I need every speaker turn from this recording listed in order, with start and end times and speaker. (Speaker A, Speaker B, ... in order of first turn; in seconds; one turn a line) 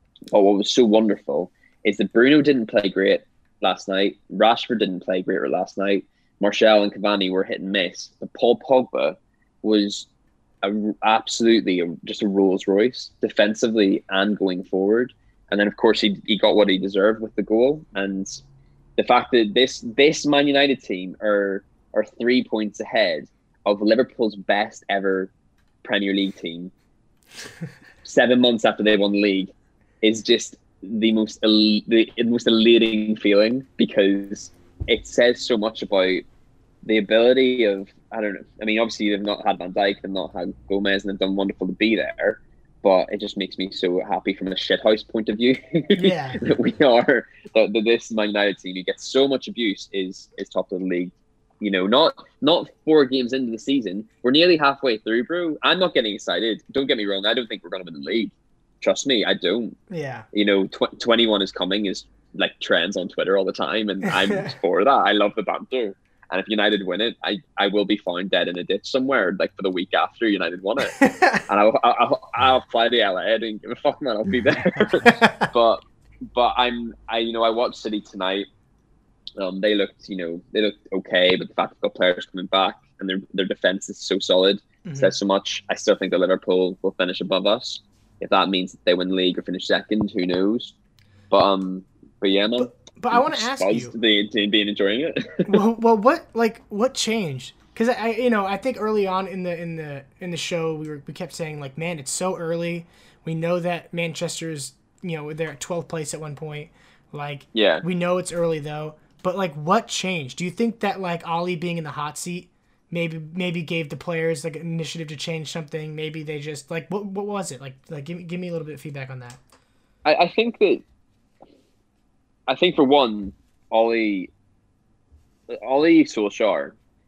Speaker A: 0.3-10.1
Speaker A: 10.6-18.4
Speaker A: 19.0-25.3
Speaker A: 25.8-26.7
Speaker A: 28.0-36.2
Speaker A: 36.9-59.8
Speaker B: 46.0-46.4
Speaker B: 59.9-60.2
Speaker A: 60.3-75.8
Speaker B: 64.1-64.5
Speaker B: 70.9-71.5
Speaker B: 75.0-75.5
Speaker A: 76.3-78.5
Speaker A: 79.4-90.7
Speaker B: 84.8-85.1
Speaker A: 91.3-95.6
Speaker B: 92.6-93.9
Speaker B: 95.5-119.4
Speaker A: 107.5-107.8
Speaker A: 120.0-120.8
Speaker A: 122.5-124.3
Speaker A: 125.5-126.8